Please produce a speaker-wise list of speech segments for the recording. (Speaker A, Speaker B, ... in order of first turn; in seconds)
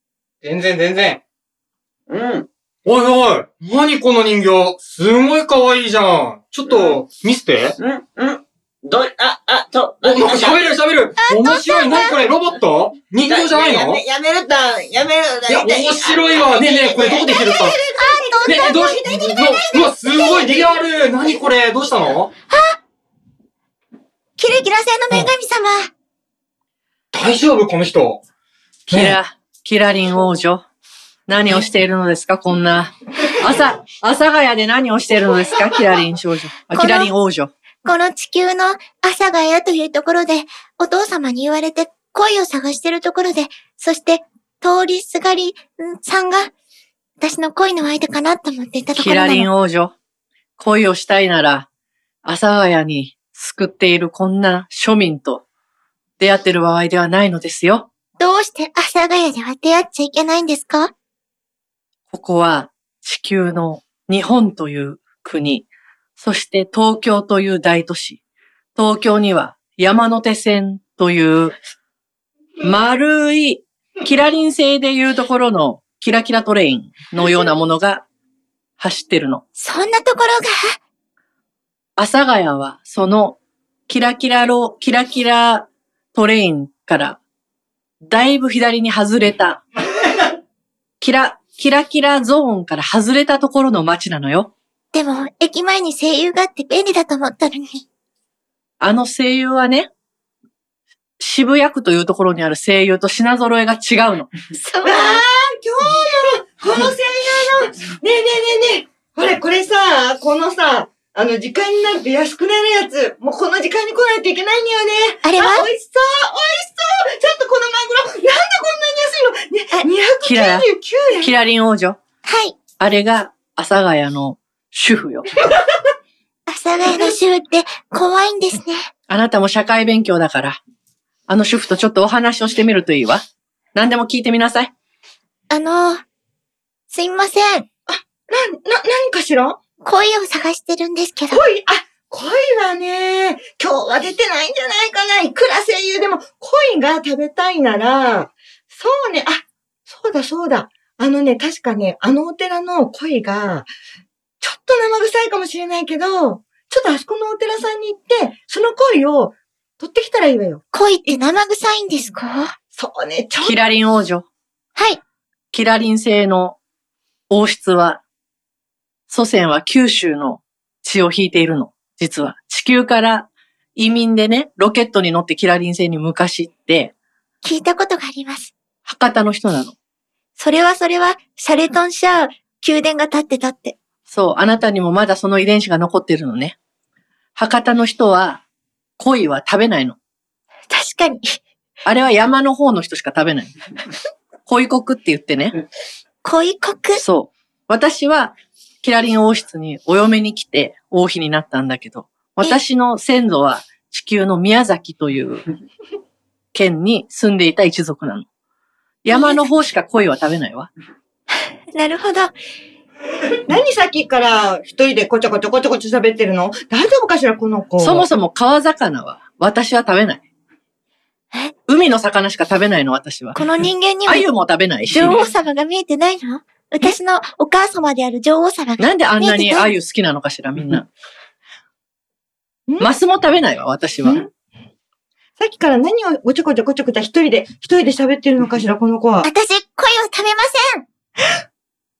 Speaker A: 0.4-1.2, 2.9-7.7, 10.0-14.0, 15.5-17.8, 18.4-22.3, 27.1-28.1
Speaker B: 2.1-2.5, 6.7-7.0, 7.8-10.7, 13.2-17.3
Speaker C: 11.2-12.2, 17.9-20.5, 22.5-22.8, 24.4-25.9, 36.7-37.1, 37.8-46.5, 47.2-49.5, 58.2-60.9, 79.6-80.8, 94.9-97.8, 104.5-105.2, 115.2-115.7, 122.2-122.6, 126.5-128.9, 135.5-136.0, 136.9-137.7, 139.8-141.4, 160.7-162.5, 177.4-178.5, 180.4-183.8, 190.7-191.4, 196.2-197.0, 209.1-209.5, 211.7-212.3, 223.3-224.3, 224.9-229.7, 239.2-240.8
Speaker D: 17.4-19.4, 104.8-121.3, 137.9-139.6, 141.3-153.7, 154.4-161.2, 162.7-163.6, 213.5-218.1, 234.0-234.3, 235.4-239.3
Speaker E: 28.9-30.6, 31.3-37.5, 48.9-49.9, 50.6-51.7, 52.2-55.4, 56.2-57.9, 62.1-65.7, 66.2-68.2, 68.8-71.5, 72.6-78.0, 78.8-79.4, 82.0-87.2, 88.0-89.6, 91.0-94.5, 98.8-99.9, 101.2-104.3, 120.2-120.7, 121.2-122.0, 122.8-125.3, 129.1-130.6, 131.3-134.7, 163.4-164.2, 165.5-166.6, 167.3-168.0, 169.1-176.9, 178.8-179.7, 184.1-186.6, 187.3-188.4, 189.0-190.0, 191.8-193.5, 194.4-195.5, 197.0-205.4, 206.5-208.3, 209.0-210.7, 217.8-220.2, 221.7-223.4, 224.1-225.2, 228.8-230.9, 232.8-234.2